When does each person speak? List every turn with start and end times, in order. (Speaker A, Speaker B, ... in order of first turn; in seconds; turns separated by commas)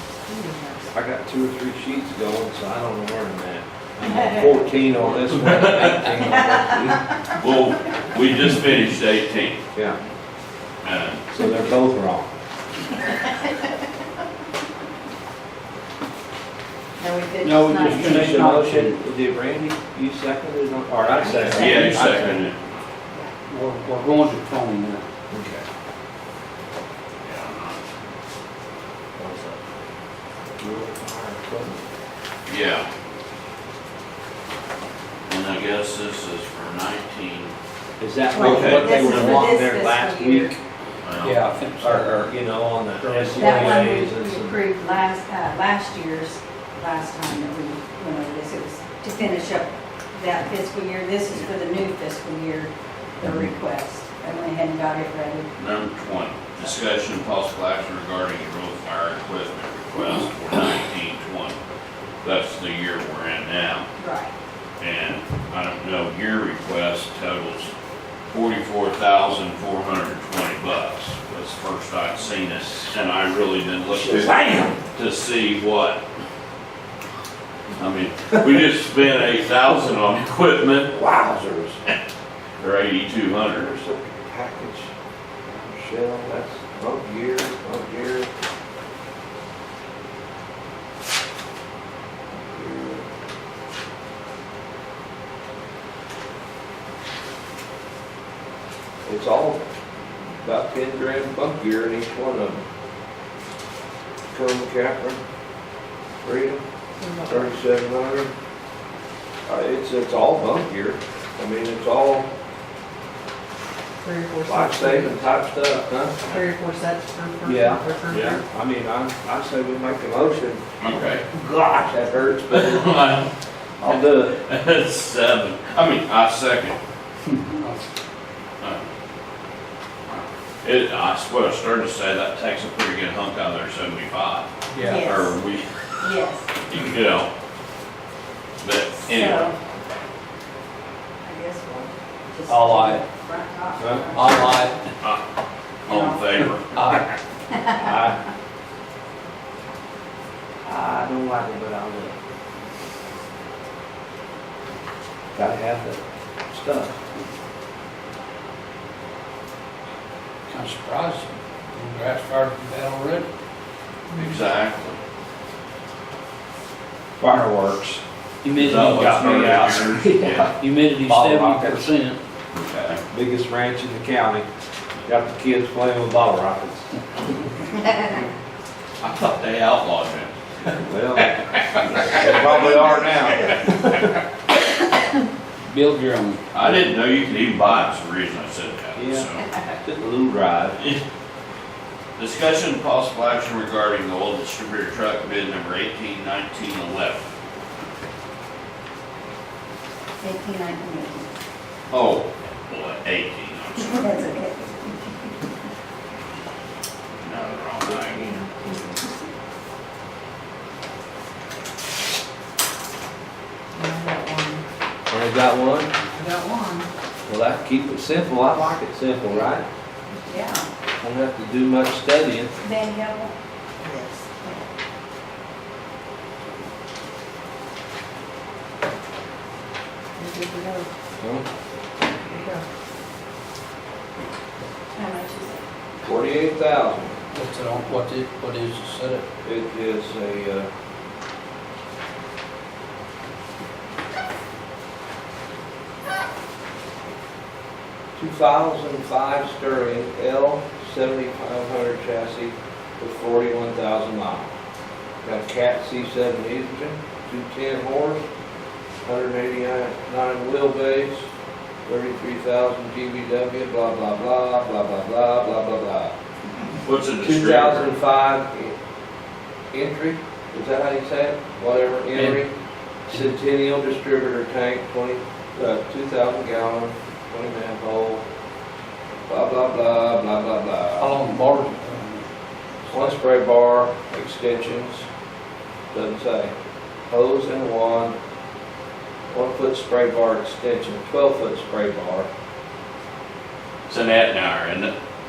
Speaker A: 0.3-0.8, Speaker B: 0.9-7.0, Speaker A: 4.0-4.8, Speaker C: 5.1-6.2, Speaker A: 6.1-7.1, Speaker C: 7.4-9.6, Speaker C: 10.8-11.2, Speaker B: 11.3-12.3, Speaker A: 17.0-18.6, Speaker D: 17.4-19.0, Speaker B: 17.9-22.5, Speaker A: 21.1-22.2, Speaker C: 21.4-22.6, Speaker D: 23.5-25.0, Speaker B: 25.3-25.6, Speaker C: 27.2-27.8, Speaker B: 29.2-29.6, Speaker B: 30.6-31.8, Speaker C: 32.5-32.9, Speaker C: 35.3-37.5, Speaker B: 38.0-40.6, Speaker A: 38.3-40.6, Speaker C: 38.4-39.1, Speaker C: 41.0-41.5, Speaker D: 41.2-42.3, Speaker B: 41.8-44.5, Speaker D: 43.0-44.0, Speaker A: 43.4-55.5, Speaker C: 55.6-61.6, Speaker C: 62.2-63.9, Speaker A: 64.0-64.3, Speaker C: 64.8-67.7, Speaker C: 68.3-76.0, Speaker B: 73.9-74.8, Speaker C: 77.8-81.0, Speaker B: 80.9-81.8, Speaker C: 82.6-83.7, Speaker B: 83.5-84.9, Speaker B: 85.5-88.3, Speaker B: 92.3-93.1, Speaker B: 99.0-99.6, Speaker B: 100.4-102.6, Speaker B: 104.3-105.2, Speaker B: 106.2-106.6, Speaker E: 107.0-107.5, Speaker B: 107.2-108.3, Speaker B: 109.5-112.3, Speaker E: 114.0-115.2, Speaker B: 114.5-116.3, Speaker E: 116.3-118.4, Speaker B: 117.4-120.6, Speaker C: 118.1-118.4, Speaker C: 120.8-121.3, Speaker B: 121.3-123.0, Speaker C: 122.5-123.3, Speaker B: 123.8-124.3, Speaker C: 123.8-126.8, Speaker D: 127.5-127.8, Speaker C: 130.1-135.7, Speaker D: 134.7-135.1, Speaker A: 134.8-135.4, Speaker A: 136.0-136.5, Speaker C: 136.7-137.3, Speaker C: 138.6-139.5, Speaker A: 139.0-139.6, Speaker A: 141.2-144.7, Speaker B: 142.5-143.0, Speaker B: 143.8-144.3, Speaker D: 144.2-144.8, Speaker C: 145.9-147.0, Speaker A: 145.9-146.2, Speaker D: 146.7-147.1, Speaker B: 147.7-148.2, Speaker B: 150.6-152.2, Speaker B: 155.3-156.0, Speaker B: 156.5-157.0, Speaker D: 160.5-163.3, Speaker C: 164.1-165.0, Speaker B: 167.2-168.0, Speaker D: 168.4-169.7, Speaker C: 168.6-170.5, Speaker B: 168.6-171.8, Speaker D: 170.5-172.2, Speaker C: 172.5-173.0, Speaker B: 173.1-174.5, Speaker B: 175.1-176.9, Speaker C: 179.0-182.8, Speaker B: 180.8-181.4, Speaker B: 182.0-184.0, Speaker D: 185.7-186.4, Speaker C: 186.5-189.5, Speaker B: 189.0-189.3, Speaker B: 189.8-190.8, Speaker C: 192.2-197.3, Speaker A: 200.2-201.3, Speaker C: 201.9-204.3, Speaker A: 203.8-205.0, Speaker C: 207.2-208.9, Speaker A: 208.0-209.2, Speaker A: 213.8-214.6, Speaker B: 215.1-215.9, Speaker A: 216.0-216.9, Speaker B: 217.3-219.7, Speaker A: 220.2-220.7, Speaker B: 221.0-222.5, Speaker A: 222.6-224.6, Speaker A: 230.2-230.8, Speaker E: 230.2-230.8, Speaker B: 231.2-231.5, Speaker A: 234.9-235.6, Speaker B: 236.0-237.2, Speaker D: 237.3-239.3, Speaker B: 239.4-240.7, Speaker B: 248.2-254.5, Speaker B: 255.2-258.2, Speaker B: 259.0-261.2, Speaker B: 261.9-266.1, Speaker C: 266.8-267.9, Speaker B: 267.2-268.8, Speaker B: 269.7-272.5, Speaker D: 272.1-272.4, Speaker D: 273.1-273.4, Speaker B: 273.1-278.2, Speaker B: 279.3-281.2, Speaker D: 281.0-282.2, Speaker B: 282.9-285.1, Speaker B: 285.9-286.5, Speaker B: 287.1-288.1, Speaker B: 289.3-292.3, Speaker C: 293.9-294.9